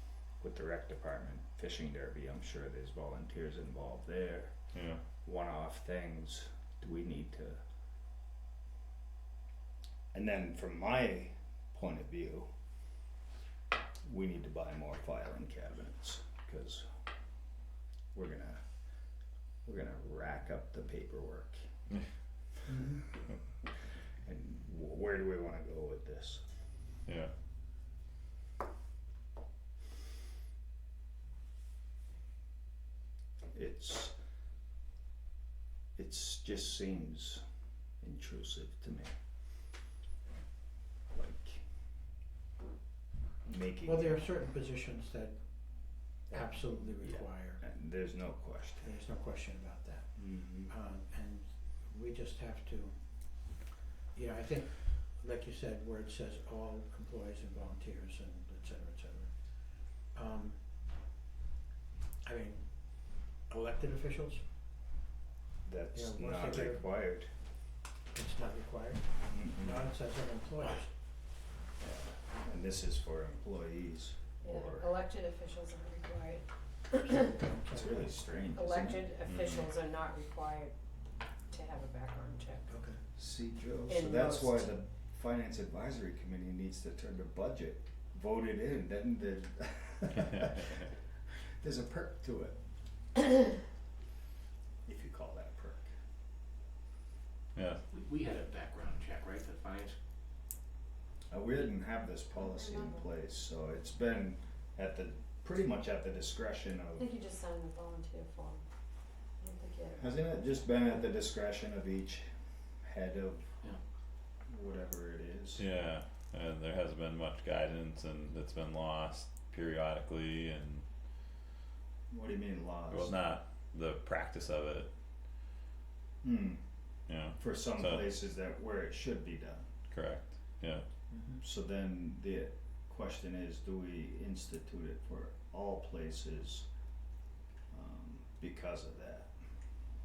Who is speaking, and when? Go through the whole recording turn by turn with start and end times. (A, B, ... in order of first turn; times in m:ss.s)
0:00.4-0:04.6 A
0:04.7-0:05.0 B
0:05.2-0:07.6 A
0:10.1-0:12.5 A
0:14.0-0:16.8 A
0:18.1-0:18.6 A
0:19.6-0:21.7 A
0:22.7-0:23.0 C
0:24.2-0:26.4 A
0:27.1-0:27.3 B
0:33.5-0:34.2 A
0:36.0-0:37.4 A
0:38.0-0:39.1 A
0:41.1-0:41.6 A
0:43.4-0:44.3 A
0:43.8-0:47.6 C
0:47.0-0:49.0 A
0:48.8-0:53.6 C
0:50.2-0:50.7 A
0:54.1-1:00.7 C
1:02.2-1:04.4 C
1:05.6-1:07.3 A
1:05.9-1:06.9 C
1:08.1-1:10.9 C
1:09.3-1:09.8 A
1:11.8-1:14.9 A
1:14.4-1:17.2 D
1:17.0-1:18.1 C
1:17.7-1:19.1 A
1:18.5-1:20.7 D
1:19.3-1:19.7 B
1:21.5-1:22.7 D
1:22.7-1:23.0 C
1:23.2-1:30.9 A
1:23.9-1:24.8 D
1:31.6-1:32.6 A
1:34.8-1:35.9 A
1:37.6-1:37.8 B
1:37.9-1:40.0 E
1:41.3-1:47.1 A
1:42.3-1:43.1 D
1:47.0-1:48.6 D
1:49.4-1:50.6 D
1:50.0-1:52.3 A
1:52.8-1:53.7 A
1:54.5-1:55.7 A
1:55.6-2:00.8 B
2:02.1-2:03.4 A
2:02.9-2:04.9 B
2:06.2-2:06.6 A
2:07.1-2:08.1 B
2:07.4-2:09.7 A
2:09.9-2:10.8 B
2:11.1-2:11.4 C
2:11.4-2:16.7 A
2:17.7-2:19.3 A